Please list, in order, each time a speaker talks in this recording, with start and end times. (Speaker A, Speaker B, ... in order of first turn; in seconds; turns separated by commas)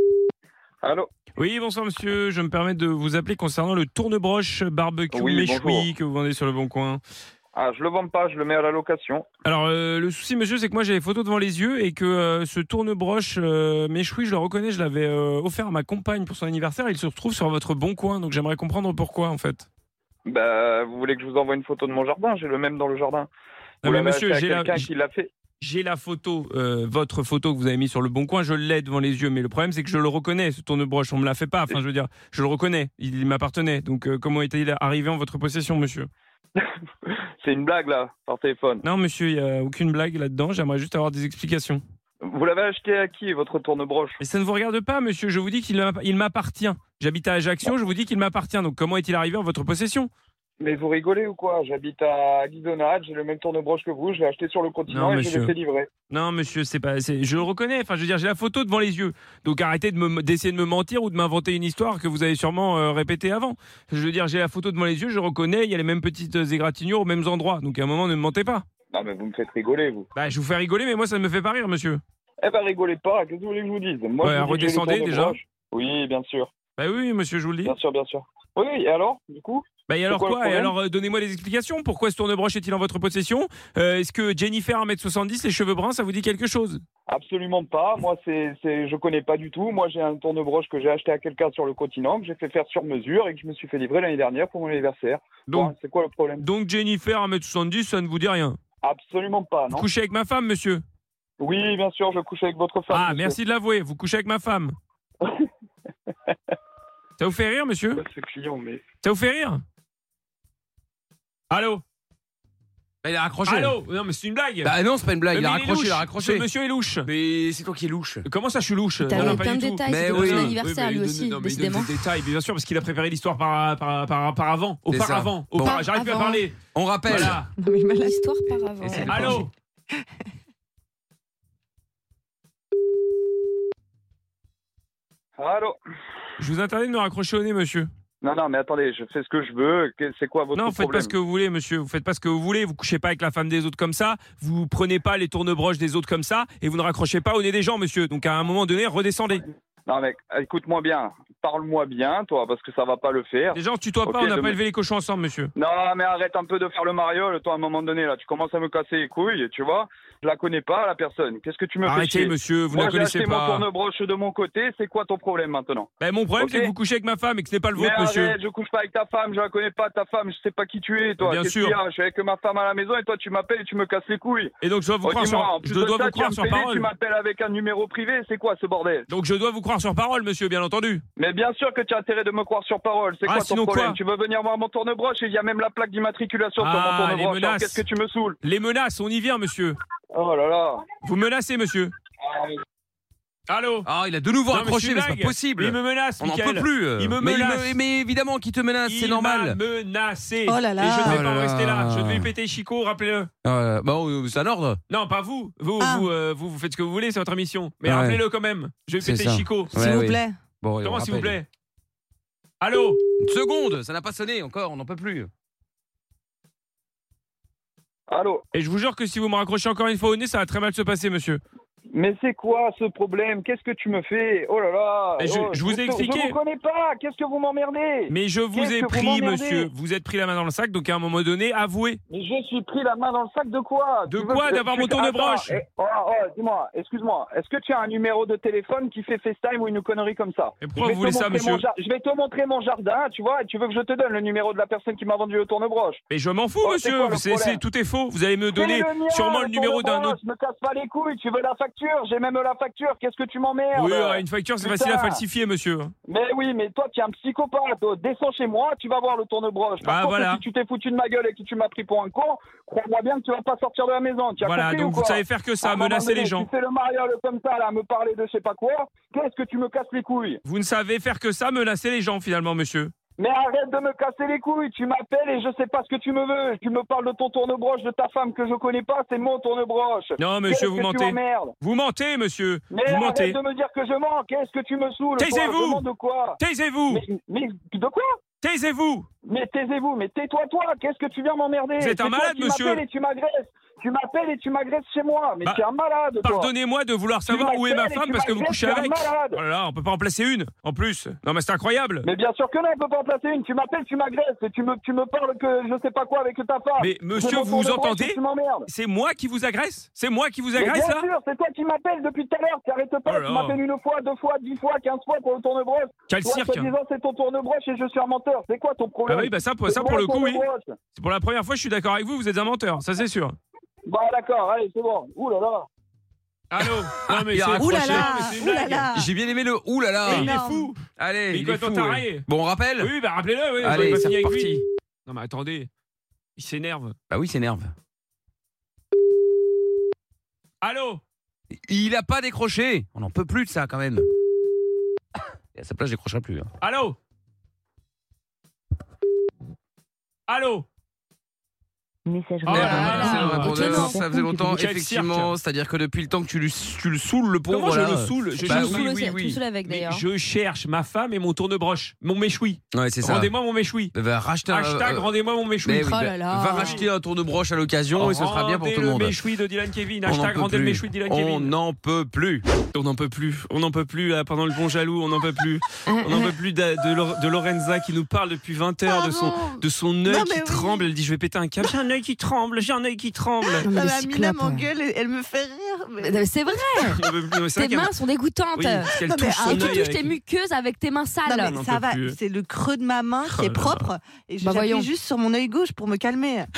Speaker A: 0.8-1.1, Speaker B: 1.4-7.0, Speaker A: 5.1-5.9, Speaker A: 7.5-9.3, Speaker B: 9.4-19.7, Speaker A: 20.3-23.3, Speaker B: 23.8-24.9, Speaker A: 23.8-25.3, Speaker B: 25.6-36.1, Speaker A: 37.4-38.8, Speaker B: 38.8-41.8, Speaker A: 42.2-44.2, Speaker B: 44.2-50.1, Speaker A: 50.6-55.9, Speaker B: 54.9-55.5, Speaker B: 56.1-68.7, Speaker A: 68.9-70.1, Speaker B: 70.2-72.0, Speaker A: 72.4-76.5, Speaker B: 74.2-75.4, Speaker B: 76.8-77.8, Speaker A: 77.6-80.7, Speaker B: 79.9-86.8, Speaker A: 87.1-96.5, Speaker B: 95.5-95.7, Speaker B: 96.4-98.6, Speaker A: 98.8-99.9, Speaker B: 99.7-100.8, Speaker A: 101.4-103.4, Speaker B: 102.9-104.8, Speaker B: 107.2-108.0, Speaker A: 108.0-108.8, Speaker B: 109.0-109.6, Speaker B: 111.5-111.8, Speaker C: 113.0-113.8, Speaker B: 113.5-114.7, Speaker C: 114.6-116.5, Speaker B: 115.3-117.1, Speaker C: 117.0-118.2, Speaker B: 118.2-126.6, Speaker D: 119.1-121.9, Speaker C: 119.1-120.6, Speaker C: 124.9-125.7, Speaker D: 125.6-126.4, Speaker C: 126.7-127.4, Speaker B: 127.1-127.5, Speaker E: 127.6-128.2, Speaker D: 128.0-129.4, Speaker C: 128.8-129.5, Speaker B: 129.0-129.5, Speaker A: 135.4-135.8, Speaker B: 136.4-137.9, Speaker A: 138.2-141.1, Speaker B: 140.6-149.4, Speaker A: 149.9-154.6, Speaker B: 153.5-155.5, Speaker A: 155.6-166.7, Speaker B: 161.9-163.7, Speaker B: 166.0-168.4, Speaker A: 167.8-174.5, Speaker B: 171.2-171.8, Speaker B: 174.6-176.9, Speaker A: 175.0-179.1, Speaker B: 179.1-181.0, Speaker A: 181.2-188.4, Speaker B: 183.2-184.0, Speaker B: 186.6-187.8, Speaker B: 188.4-189.8, Speaker A: 190.1-190.8, Speaker B: 191.0-191.9, Speaker A: 192.2-192.6, Speaker B: 193.5-193.9, Speaker C: 193.8-199.6, Speaker B: 194.5-197.8, Speaker B: 198.8-203.3, Speaker E: 200.5-201.2, Speaker C: 201.0-202.3, Speaker C: 203.4-204.8, Speaker B: 204.9-209.8, Speaker E: 205.8-206.1, Speaker C: 207.8-208.2, Speaker C: 209.0-211.4, Speaker E: 209.7-210.4, Speaker B: 210.8-211.5, Speaker B: 212.6-213.0, Speaker C: 213.2-215.3, Speaker A: 218.1-218.4, Speaker B: 218.5-221.4, Speaker A: 221.9-229.7, Speaker B: 225.2-226.4, Speaker B: 228.1-232.0, Speaker A: 232.1-246.0, Speaker B: 234.1-235.6, Speaker B: 240.6-241.6, Speaker B: 246.1-250.2, Speaker A: 246.6-247.6, Speaker A: 248.6-255.2, Speaker B: 253.8-255.9, Speaker A: 256.1-270.4, Speaker B: 259.8-260.4, Speaker B: 264.4-266.5, Speaker B: 270.5-272.9, Speaker A: 273.2-281.5, Speaker B: 280.2-283.4, Speaker A: 282.7-286.4, Speaker B: 285.2-285.8, Speaker B: 286.4-287.0, Speaker A: 286.9-288.2, Speaker B: 288.4-289.1, Speaker A: 289.2-296.5, Speaker B: 291.8-292.8, Speaker B: 296.2-302.1, Speaker A: 297.3-299.4, Speaker A: 302.0-308.7, Speaker B: 306.8-311.1, Speaker A: 310.6-320.7, Speaker B: 313.1-313.6, Speaker B: 316.1-316.7, Speaker B: 319.1-323.4, Speaker A: 323.9-325.7, Speaker B: 326.5-328.9, Speaker C: 327.1-328.1, Speaker E: 327.6-329.1, Speaker C: 328.9-330.3, Speaker E: 330.0-330.7, Speaker B: 330.1-330.8, Speaker C: 331.0-332.9, Speaker B: 331.3-332.3, Speaker B: 332.8-335.7, Speaker C: 333.6-334.6, Speaker B: 336.4-337.0, Speaker C: 337.1-337.7, Speaker B: 340.6-341.0, Speaker C: 341.7-344.1, Speaker C: 345.6-346.5, Speaker B: 346.6-347.0, Speaker B: 350.3-350.7, Speaker E: 352.1-352.5, Speaker B: 352.4-355.3, Speaker D: 352.5-354.2, Speaker C: 352.5-359.4, Speaker B: 357.5-363.9, Speaker D: 358.4-360.1, Speaker C: 362.7-363.3, Speaker C: 363.9-365.1, Speaker B: 364.5-366.9, Speaker C: 365.6-369.2, Speaker D: 365.7-366.8, Speaker B: 367.9-371.5, Speaker C: 370.1-372.4, Speaker B: 372.7-383.7, Speaker D: 375.9-376.3, Speaker D: 378.9-379.6, Speaker E: 380.1-380.9, Speaker D: 383.6-384.7, Speaker E: 383.7-386.2, Speaker D: 386.0-387.0, Speaker B: 386.9-387.9, Speaker D: 387.6-391.6, Speaker B: 388.6-390.1, Speaker E: 389.0-389.8, Speaker E: 391.3-396.5, Speaker B: 391.4-392.2, Speaker B: 393.2-393.9, Speaker D: 394.4-394.9